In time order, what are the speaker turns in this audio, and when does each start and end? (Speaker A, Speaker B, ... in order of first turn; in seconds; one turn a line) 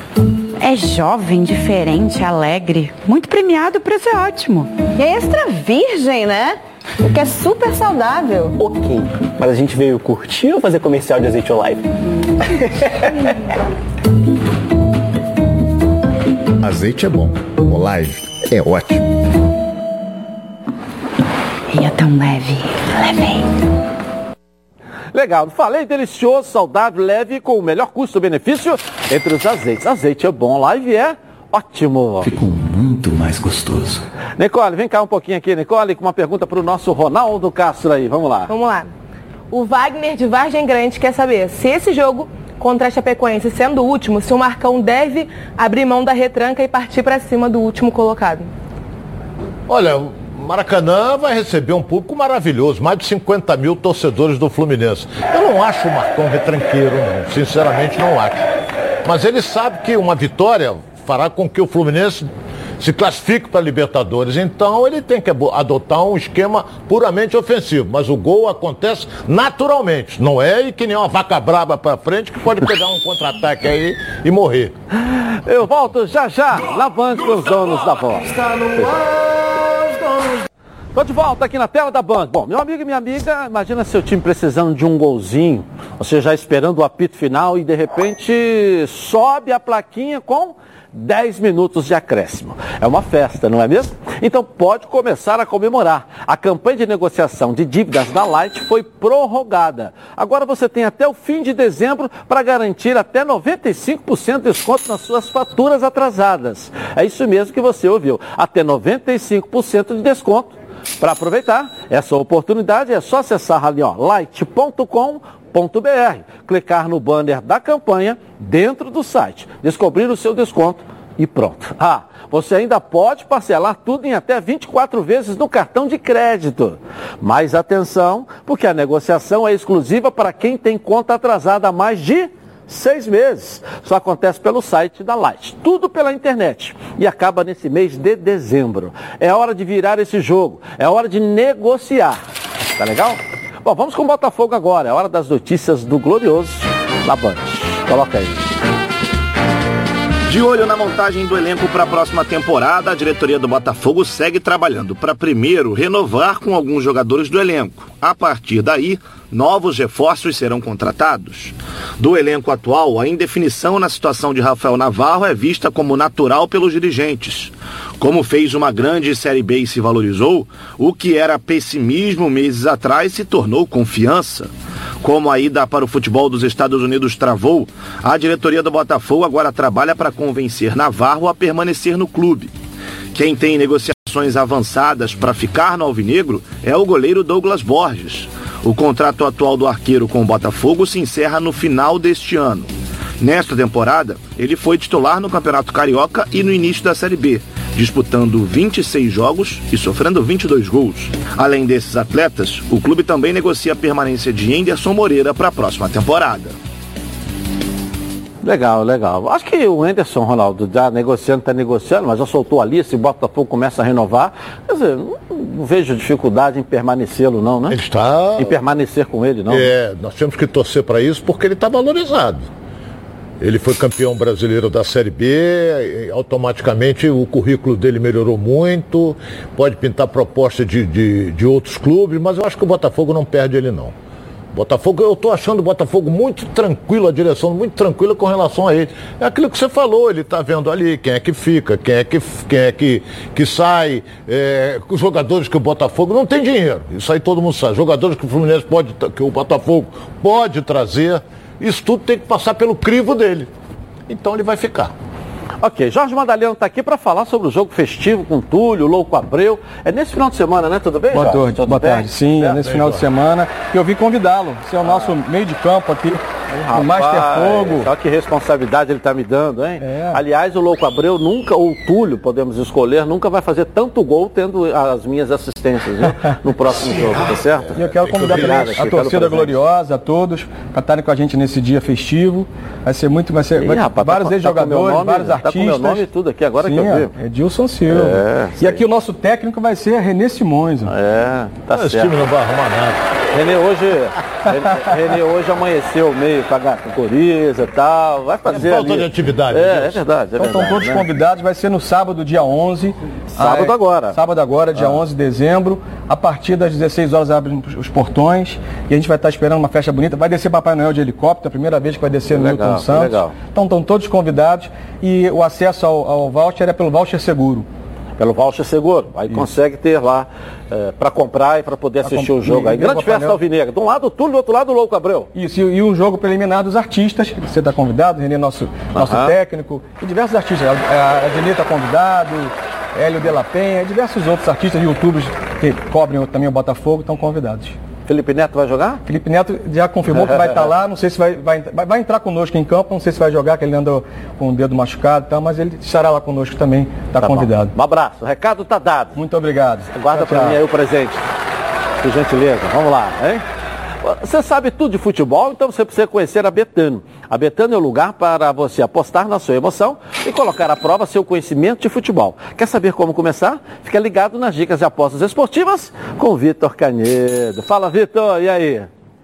Speaker A: 0.6-4.7
Speaker A: 5.4-6.6
Speaker B: 8.0-8.5
Speaker C: 8.6-11.8
Speaker D: 16.6-19.1
Speaker A: 21.7-23.4
Speaker E: 25.1-32.4
Speaker D: 32.5-33.9
Speaker E: 34.4-38.5
Speaker B: 38.5-38.9
Speaker B: 39.5-48.5
Speaker F: 49.7-58.5
Speaker F: 59.0-62.3
Speaker F: 62.8-74.7
Speaker E: 75.4-79.0
Speaker E: 81.0-142.2
Speaker E: 142.8-148.5
Speaker G: 150.3-174.5
Speaker G: 175.0-182.5
Speaker G: 183.1-192.7
Speaker G: 193.2-206.6
Speaker E: 208.4-217.8
Speaker F: 217.7-218.6
Speaker E: 218.4-219.7
Speaker F: 219.5-222.5
Speaker F: 223.4-233.9
Speaker F: 234.5-253.5
Speaker F: 254.1-254.9
Speaker E: 255.6-262.6
Speaker H: 261.1-267.9
Speaker F: 262.6-263.0
Speaker E: 264.8-265.1
Speaker E: 266.6-279.6
Speaker H: 269.8-270.2
Speaker H: 277.8-286.1
Speaker F: 277.8-278.8
Speaker E: 283.6-287.1
Speaker H: 286.6-290.9
Speaker E: 287.9-288.8
Speaker E: 290.9-292.3
Speaker F: 291.7-293.0
Speaker E: 293.3-301.1
Speaker F: 298.5-300.0
Speaker H: 300.4-317.6
Speaker E: 303.4-304.2
Speaker E: 304.7-305.0
Speaker E: 312.3-313.3
Speaker E: 318.2-325.3
Speaker H: 322.0-323.4
Speaker H: 325.3-337.8
Speaker E: 328.9-329.4
Speaker E: 338.1-339.0
Speaker H: 339.1-347.7
Speaker E: 340.1-340.7
Speaker E: 347.2-349.2
Speaker H: 349.1-350.6
Speaker E: 349.9-351.3
Speaker E: 352.0-353.4
Speaker E: 354.0-368.9